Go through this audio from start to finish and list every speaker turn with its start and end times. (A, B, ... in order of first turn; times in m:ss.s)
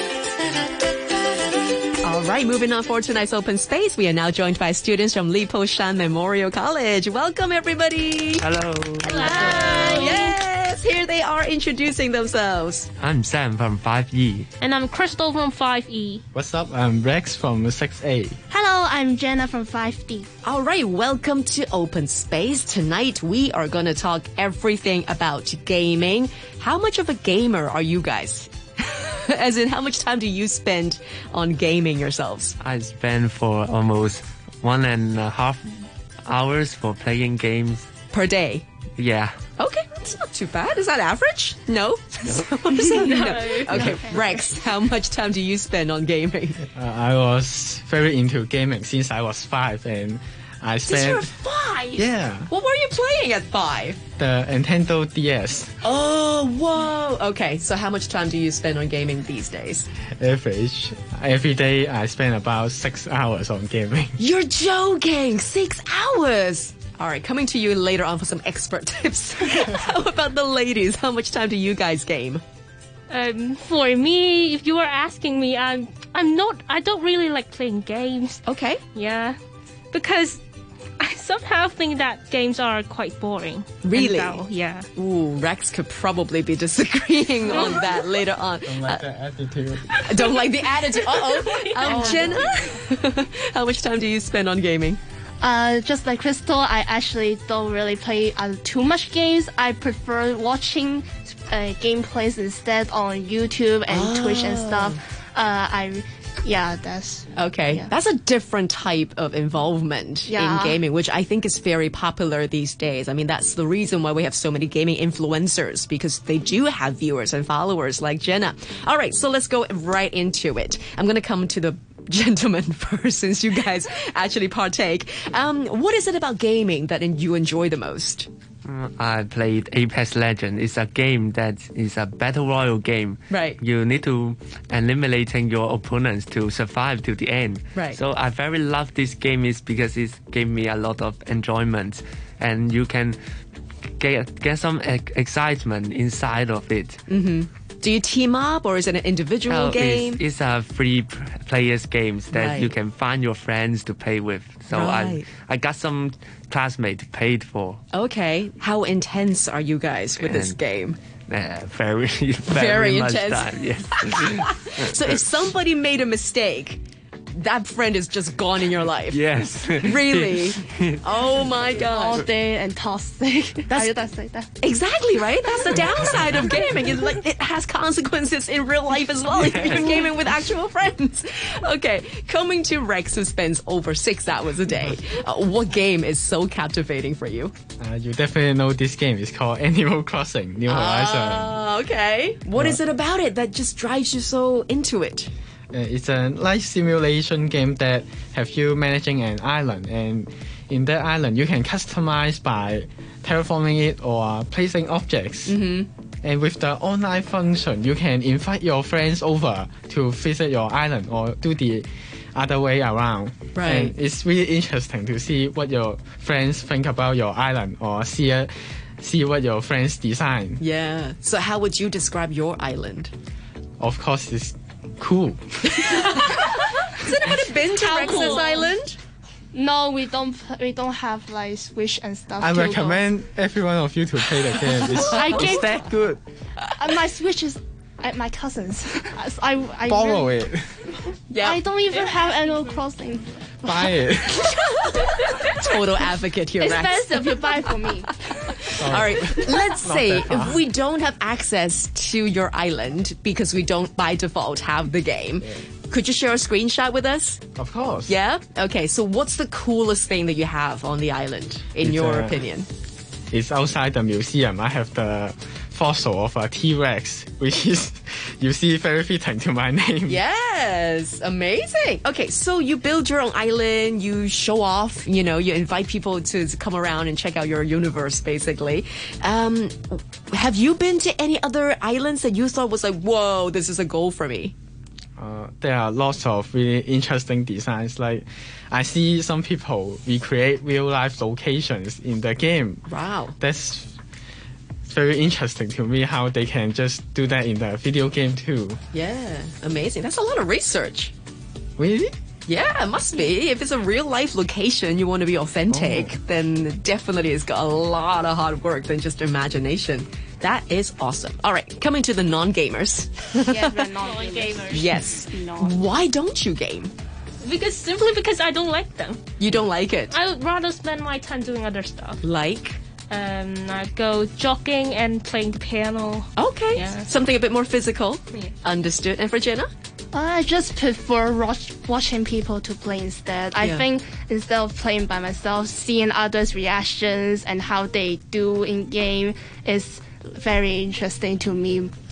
0:02.0-0:08.5 A
0:08.4-0:09.9 B
0:09.0-0:12.9 A
0:09.1-0:10.4 C
0:09.2-0:09.7 D
0:13.0-0:14.5 B
0:14.6-0:16.2 C
0:16.3-0:18.4 E
0:18.5-0:20.3 D
0:20.4-0:32.6 A
0:32.6-0:37.9 B
0:38.1-0:38.6 A
0:39.0-0:39.4 B
0:39.6-0:46.7 A
0:42.3-0:43.2 B
0:42.8-0:44.0 C
0:43.7-0:44.0 E
0:46.7-0:51.3 E
0:50.8-0:54.0 A
0:52.0-0:52.5 E
0:54.2-0:55.7 E
0:55.8-0:59.9 A
1:00.2-1:04.2 E
1:04.2-1:12.4 A
1:13.1-1:19.4 C
1:18.5-1:18.8 A
1:19.9-1:20.4 C
1:21.0-1:24.9 C
1:23.8-1:29.0 A
1:27.5-1:28.2 C
1:28.7-1:30.1 E
1:30.0-1:32.5 C
1:30.1-1:35.0 A
1:31.8-1:32.6 D
1:35.4-1:47.9 D
1:43.9-1:45.0 A
1:47.4-2:08.3 A
1:50.3-1:50.8 D
2:08.6-2:23.2 B
2:13.3-2:13.6 A
2:24.0-2:27.0 B
2:27.1-2:30.2 A
2:29.5-2:37.8 B
2:32.3-2:32.8 A
2:34.7-2:35.3 A
2:37.9-2:41.0 A
2:40.2-2:40.6 B
2:41.3-2:45.2 B
2:42.5-2:52.2 A
2:49.1-2:51.0 B
2:51.8-2:54.5 D
2:53.7-2:53.9 A
2:54.6-3:07.5 A
2:59.3-3:00.0 B
3:07.8-3:11.6 E
3:10.7-3:15.3 A
3:15.7-3:25.6 E
3:25.5-3:25.9 A
3:26.2-3:40.6 E
3:33.6-3:34.0 A
3:40.6-3:43.1 A
3:43.8-3:45.8 E
3:45.7-3:49.0 A
3:47.6-3:48.7 D
3:49.5-3:53.1 D
3:52.4-3:56.2 E
3:54.5-3:55.6 A
3:54.9-3:55.9 D
3:56.8-4:00.4 D
3:59.9-4:00.9 E
4:01.3-4:01.6 A
4:01.4-4:03.9 D
4:03.6-4:04.6 E
4:04.7-4:07.7 A
4:06.6-4:08.2 D
4:08.3-4:17.6 A
4:08.8-4:10.6 E
4:17.6-4:18.1 E
4:18.1-4:22.7 A
4:21.8-4:22.4 E
4:23.3-4:30.2 E
4:30.1-4:44.5 A
4:45.2-4:52.8 E
4:52.9-4:53.4 A
4:53.4-4:53.9 E
4:54.9-4:58.8 E
4:58.9-5:01.1 A
5:01.8-5:02.1 E
5:02.5-5:13.9 A
5:05.7-5:06.1 E
5:13.3-5:15.8 D
5:14.0-5:15.0 C
5:14.8-5:16.9 A
5:17.4-5:19.2 C
5:19.4-5:20.2 A
5:20.1-5:22.2 C
5:22.2-5:22.8 A
5:23.1-5:27.1 C
5:26.4-5:29.7 A
5:30.1-5:41.9 D
5:33.6-5:33.9 A